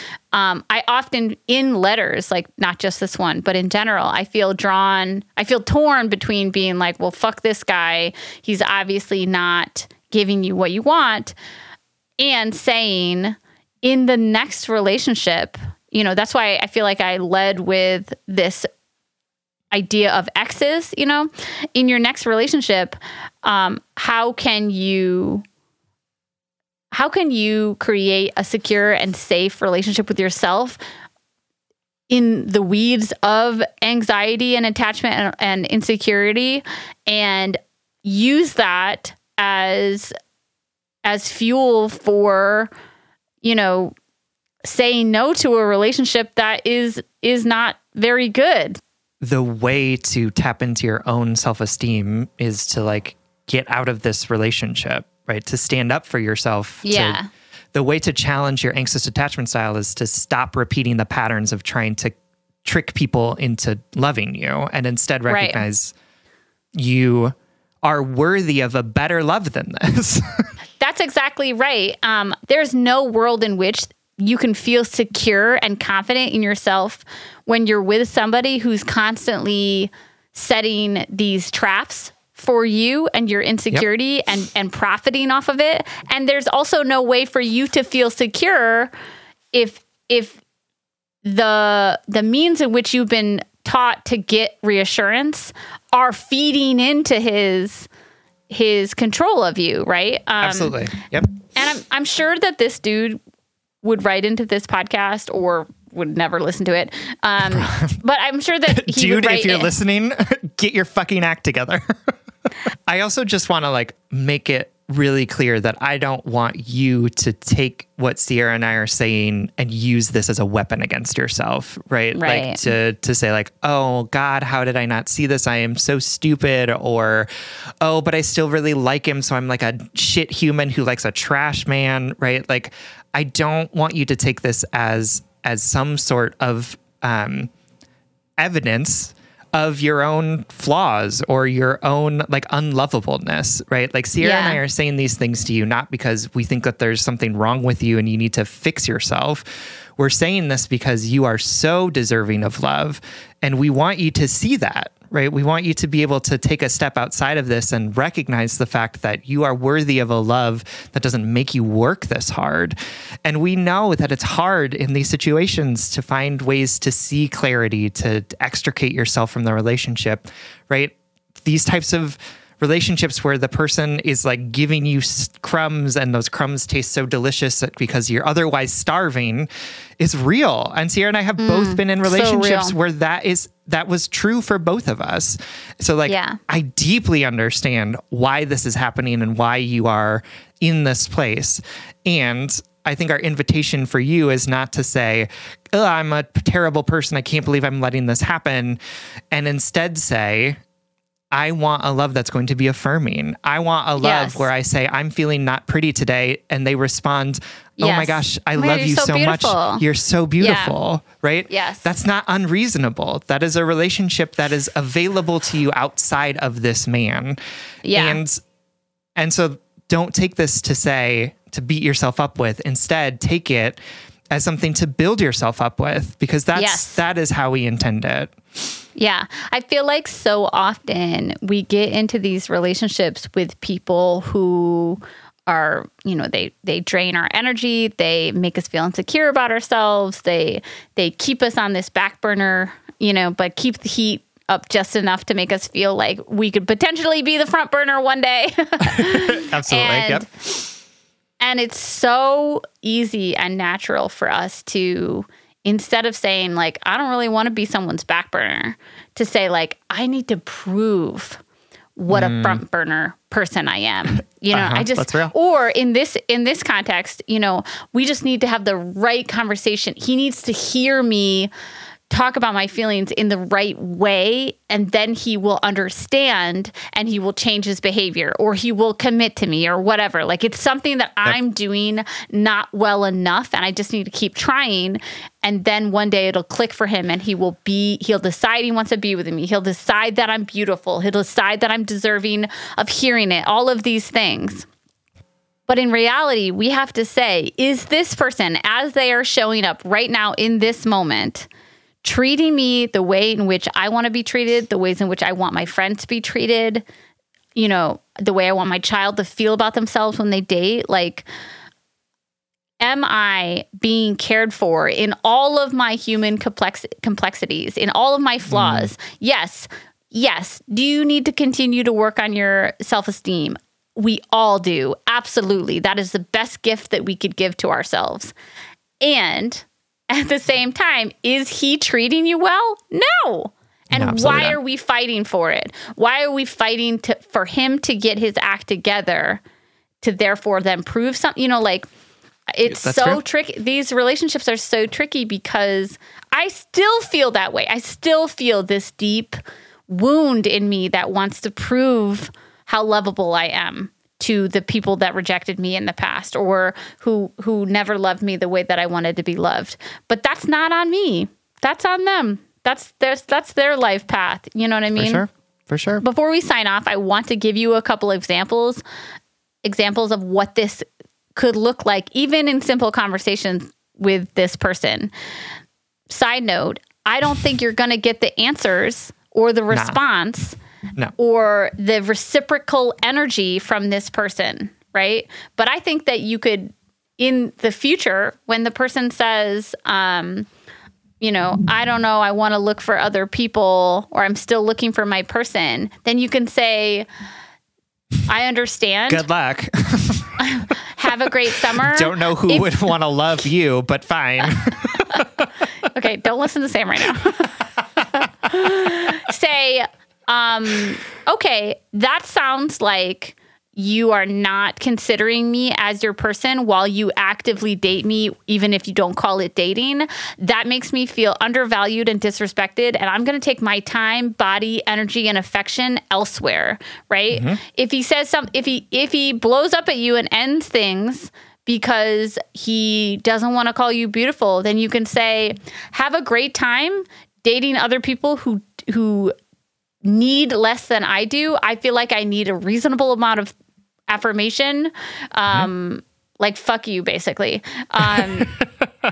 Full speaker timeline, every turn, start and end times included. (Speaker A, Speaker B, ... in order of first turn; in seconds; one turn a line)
Speaker A: 0.3-11.3
Speaker A: 12.2-18.7
Speaker A: 19.7-25.4
Speaker A: 26.9-30.8
Speaker A: 32.1-40.1
Speaker A: 41.0-42.7
Speaker A: 43.4-43.9
Speaker A: 44.6-48.8
Speaker B: 49.2-57.2
Speaker A: 56.8-57.3
Speaker B: 57.7-65.9
Speaker A: 65.3-65.6
Speaker B: 66.7-70.5
Speaker A: 70.8-88.9
Speaker A: 89.5-90.4
Speaker A: 91.2-97.9
Speaker A: 98.5-100.8
Speaker B: 100.4-101.3
Speaker A: 101.5-103.2
Speaker A: 103.8-109.7
Speaker B: 107.5-107.9
Speaker B: 108.7-112.1
Speaker B: 112.9-127.3
Speaker A: 122.1-122.6
Speaker B: 127.8-137.5
Speaker B: 138.4-198.8
Speaker A: 144.2-144.6
Speaker A: 181.4-182.7
Speaker A: 186.1-186.4
Speaker B: 199.3-200.6
Speaker B: 201.3-217.4
Speaker A: 204.0-204.5
Speaker A: 207.8-209.8
Speaker A: 210.4-210.8
Speaker A: 211.5-211.9
Speaker A: 217.8-218.2
Speaker B: 217.9-218.4
Speaker B: 219.2-228.3
Speaker A: 226.5-227.0
Speaker A: 228.9-250.2
Speaker B: 248.9-250.7
Speaker A: 251.4-261.4
Speaker A: 262.0-271.5
Speaker B: 262.1-262.6
Speaker B: 264.5-265.3
Speaker A: 272.1-294.7
Speaker A: 295.7-301.5
Speaker A: 302.0-306.8
Speaker A: 307.6-311.2
Speaker A: 312.8-328.3
Speaker B: 318.5-318.9
Speaker A: 329.0-339.4
Speaker B: 333.9-334.6
Speaker A: 340.0-341.9
Speaker A: 342.5-349.4
Speaker B: 342.7-343.2
Speaker A: 349.9-365.2
Speaker B: 365.0-366.0
Speaker A: 366.0-368.8
Speaker A: 369.6-375.1
Speaker A: 376.1-380.6
Speaker B: 379.7-380.0
Speaker A: 381.2-390.5
Speaker A: 391.2-397.1
Speaker A: 398.2-399.2
Speaker B: 399.1-400.4
Speaker A: 400.4-402.8
Speaker B: 401.7-405.5
Speaker A: 405.8-407.6
Speaker A: 408.4-439.3
Speaker B: 427.3-427.6
Speaker A: 440.0-443.5
Speaker A: 444.1-448.5
Speaker B: 448.1-448.6